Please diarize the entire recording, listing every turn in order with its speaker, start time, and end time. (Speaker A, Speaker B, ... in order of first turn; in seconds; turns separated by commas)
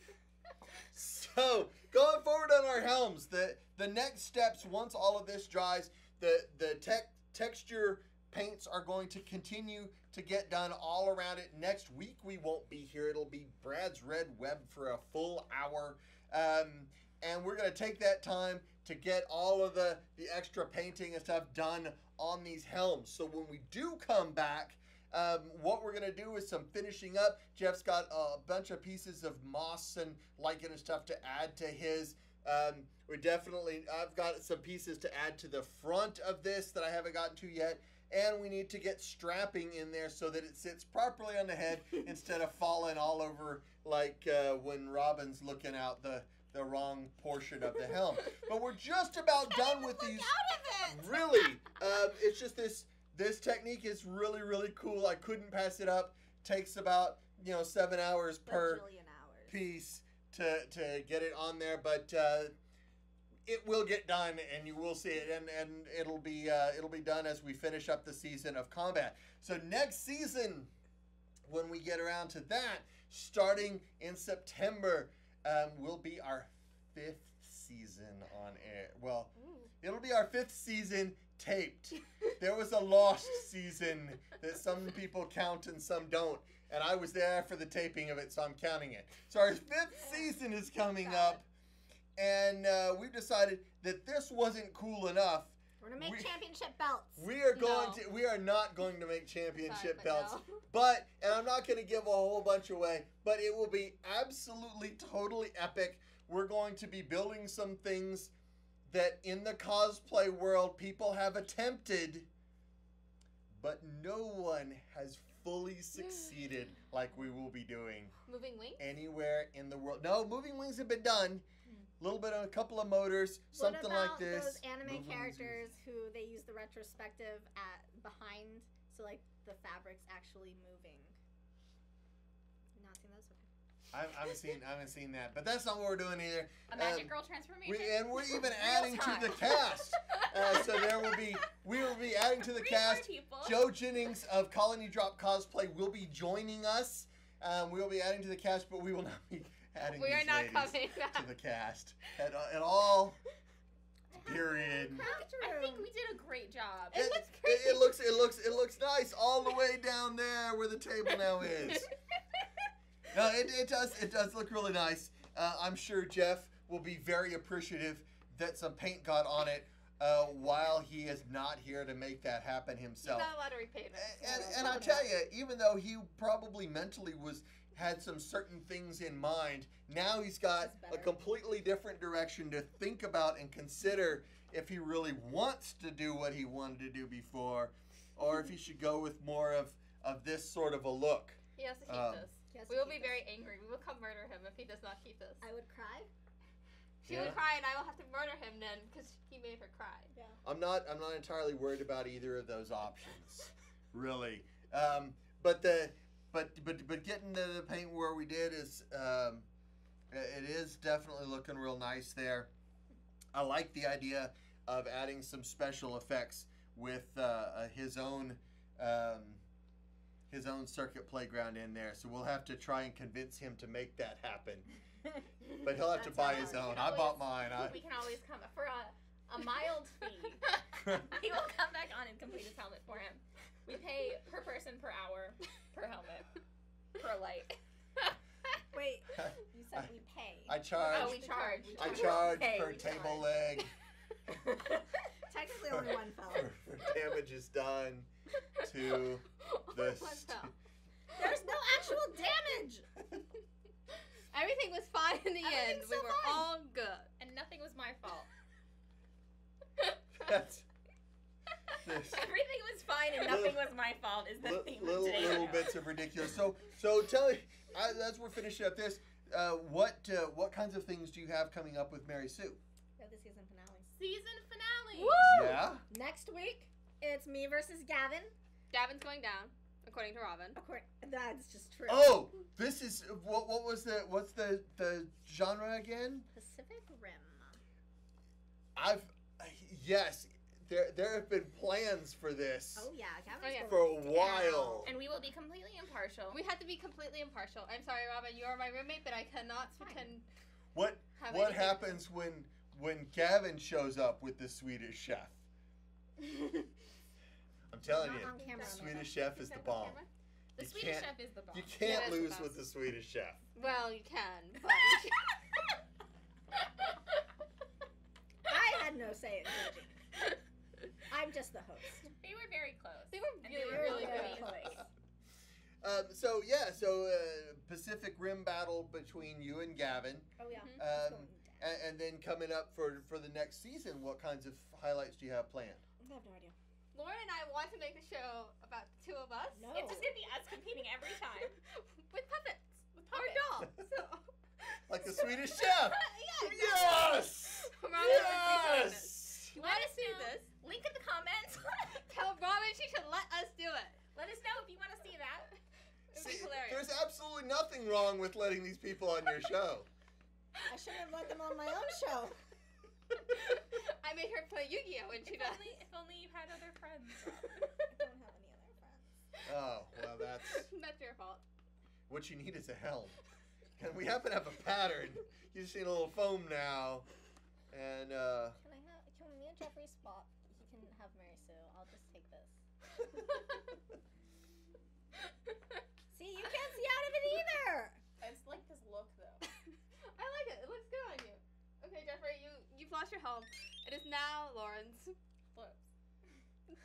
Speaker A: 0.9-58.8, Speaker B: 49.5-51.2, Speaker B: 58.5-59.6, Speaker A: 59.5-62.5, Speaker A: 63.5-70.7, Speaker A: 71.5-91.4, Speaker C: 79.4-79.7, Speaker C: 91.0-91.4, Speaker A: 92.2-96.4, Speaker B: 95.8-97.2, Speaker A: 97.2-108.3, Speaker C: 97.5-98.0, Speaker C: 99.6-100.6, Speaker A: 108.9-112.3, Speaker A: 113.5-118.1, Speaker C: 118.2-118.8, Speaker A: 118.8-121.4, Speaker A: 122.0-125.6, Speaker B: 123.5-131.2, Speaker B: 132.8-133.5, Speaker A: 133.9-153.2, Speaker D: 136.7-139.7, Speaker D: 142.4-143.6, Speaker C: 149.9-151.3, Speaker A: 154.2-155.1, Speaker B: 154.8-155.9, Speaker D: 154.9-157.1, Speaker A: 156.9-161.9, Speaker C: 156.9-157.8, Speaker A: 163.1-173.3, Speaker C: 173.0-175.1, Speaker A: 173.9-192.2, Speaker B: 180.6-181.2, Speaker C: 191.6-195.4, Speaker B: 192.5-193.2, Speaker B: 195.4-196.1, Speaker C: 197.0-200.1, Speaker A: 197.1-197.4, Speaker A: 200.4-209.4, Speaker A: 210.1-212.5, Speaker A: 213.3-219.4, Speaker A: 220.3-224.7, Speaker A: 225.6-227.8, Speaker B: 225.8-226.8, Speaker D: 226.0-236.3, Speaker A: 230.8-231.1, Speaker D: 237.0-237.6, Speaker B: 238.7-242.3, Speaker A: 239.1-239.9, Speaker A: 240.5-241.2, Speaker D: 240.8-243.6, Speaker A: 241.8-243.7, Speaker B: 245.2-246.5, Speaker A: 245.7-248.1, Speaker A: 248.6-250.5, Speaker C: 249.4-250.5, Speaker B: 251.1-252.9, Speaker C: 254.3-257.1, Speaker B: 255.4-255.9, Speaker D: 255.5-256.4, Speaker D: 257.2-258.3, Speaker A: 260.2-260.6, Speaker A: 261.8-262.3, Speaker D: 262.0-265.7, Speaker A: 263.2-263.6, Speaker A: 264.4-272.6, Speaker B: 273.0-273.9, Speaker D: 274.0-275.4, Speaker C: 275.0-275.6, Speaker A: 275.2-275.8, Speaker B: 275.9-278.3, Speaker C: 278.7-280.6, Speaker B: 280.5-282.2, Speaker A: 281.9-286.2, Speaker B: 286.3-287.6, Speaker A: 288.8-292.9, Speaker B: 292.8-294.8, Speaker C: 293.4-294.9, Speaker A: 293.6-294.9, Speaker D: 294.8-296.4, Speaker C: 296.3-300.2, Speaker B: 299.8-300.1, Speaker A: 300.7-305.4, Speaker C: 301.2-302.0, Speaker A: 307.7-310.0, Speaker B: 307.9-309.3, Speaker C: 308.0-310.1, Speaker D: 310.6-312.2, Speaker A: 310.6-313.4, Speaker C: 311.8-312.6, Speaker C: 313.5-315.2, Speaker B: 318.5-320.0, Speaker B: 321.1-322.1, Speaker D: 322.2-324.8, Speaker C: 323.1-324.5, Speaker B: 323.6-324.8, Speaker A: 325.8-335.8, Speaker B: 330.4-331.6, Speaker C: 330.5-330.8, Speaker B: 336.0-336.5, Speaker C: 336.9-339.8, Speaker B: 339.5-340.1, Speaker D: 339.7-341.6, Speaker C: 341.6-350.4, Speaker D: 343.1-343.5, Speaker A: 344.9-349.5, Speaker D: 349.5-352.0, Speaker C: 352.0-354.0, Speaker D: 354.1-355.6, Speaker C: 356.1-356.9, Speaker A: 356.1-359.9, Speaker B: 360.7-362.4, Speaker C: 363.2-365.8, Speaker D: 365.2-367.5, Speaker B: 367.9-369.1, Speaker A: 369.4-370.7, Speaker C: 370.5-371.4, Speaker A: 372.1-373.1, Speaker A: 373.8-377.1, Speaker A: 377.7-378.6, Speaker B: 378.6-382.6, Speaker B: 386.1-388.0, Speaker D: 388.2-389.4, Speaker C: 390.1-395.1